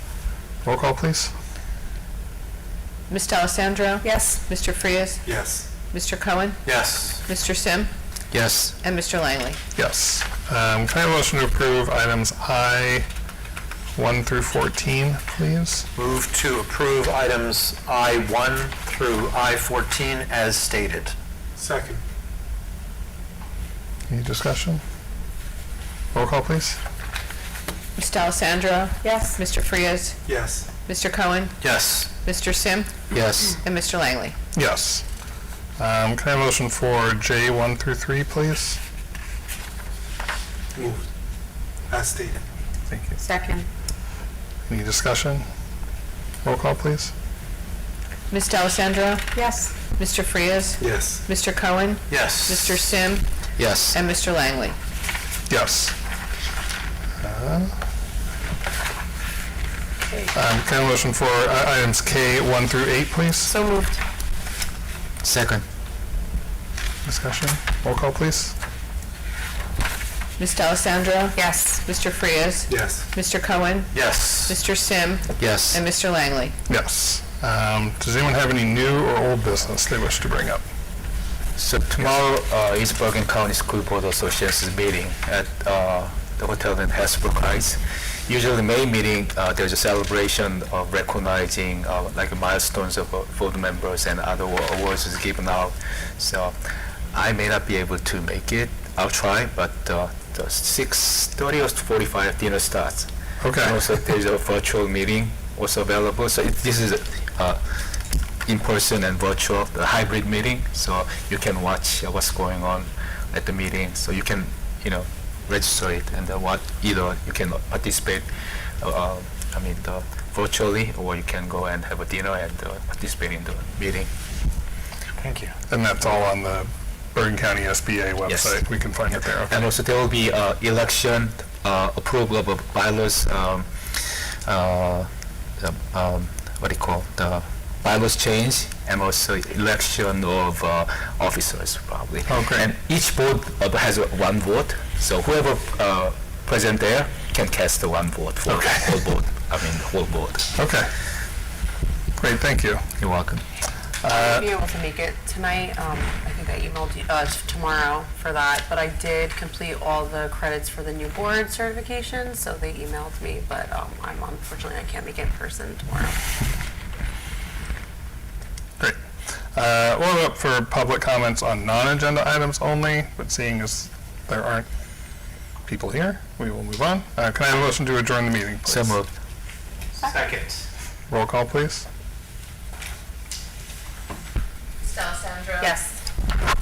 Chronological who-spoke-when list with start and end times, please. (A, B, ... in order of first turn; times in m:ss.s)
0:00.6-0:01.3 A
0:03.1-0:05.2 B
0:04.0-0:04.4 C
0:05.2-0:05.7 D
0:05.9-0:06.6 B
0:06.6-0:07.2 E
0:07.2-0:07.9 B
0:08.3-0:08.7 F
0:08.8-0:09.6 B
0:09.8-0:13.1 A
0:13.9-0:15.8 A
0:15.9-0:21.1 E
0:21.6-0:22.0 D
0:24.1-0:24.8 A
0:26.1-0:26.8 A
0:28.0-0:30.2 B
0:29.0-0:29.4 C
0:30.2-0:30.6 D
0:30.8-0:31.6 B
0:31.6-0:32.1 E
0:32.1-0:32.9 B
0:33.1-0:33.6 F
0:33.6-0:34.3 B
0:34.5-0:35.0 A
0:35.8-0:38.8 A
0:40.7-0:41.0 D
0:41.9-0:42.4 D
0:42.9-0:43.2 A
0:43.2-0:43.7 C
0:44.7-0:45.5 A
0:46.4-0:47.1 A
0:48.3-0:49.2 B
0:49.3-0:49.7 C
0:49.9-0:53.2 B
0:50.8-0:51.2 D
0:52.1-0:52.9 E
0:53.6-0:54.0 F
0:53.9-0:54.8 B
0:55.5-0:55.9 A
0:57.2-0:57.7 A
1:00.3-1:03.5 A
1:03.4-1:04.0 C
1:05.2-1:05.6 F
1:07.0-1:08.5 A
1:10.4-1:16.5 B
1:11.4-1:11.8 C
1:12.7-1:13.0 D
1:13.9-1:14.6 E
1:15.4-1:15.8 F
1:16.7-1:20.6 A
1:21.6-1:36.5 F
1:37.1-1:47.6 F
1:43.4-1:43.8 A
1:48.4-1:58.3 F
1:58.8-2:04.1 F
2:05.2-2:05.5 E
2:05.7-2:09.5 A
2:08.2-2:13.7 F
2:14.4-2:15.1 F
2:15.6-2:30.4 F
2:22.3-2:22.7 A
2:28.5-2:28.9 A
2:30.6-2:30.9 A
2:32.2-2:32.8 A
2:33.0-2:33.4 F
2:34.0-2:34.4 A
2:34.0-2:46.2 C
2:49.5-2:54.7 A
2:55.7-2:59.0 A
2:58.6-2:59.1 F
3:00.0-3:00.2 C
3:00.0-3:00.6 E
3:01.1-3:01.8 A
3:04.8-3:05.8 B
3:05.6-3:06.0 C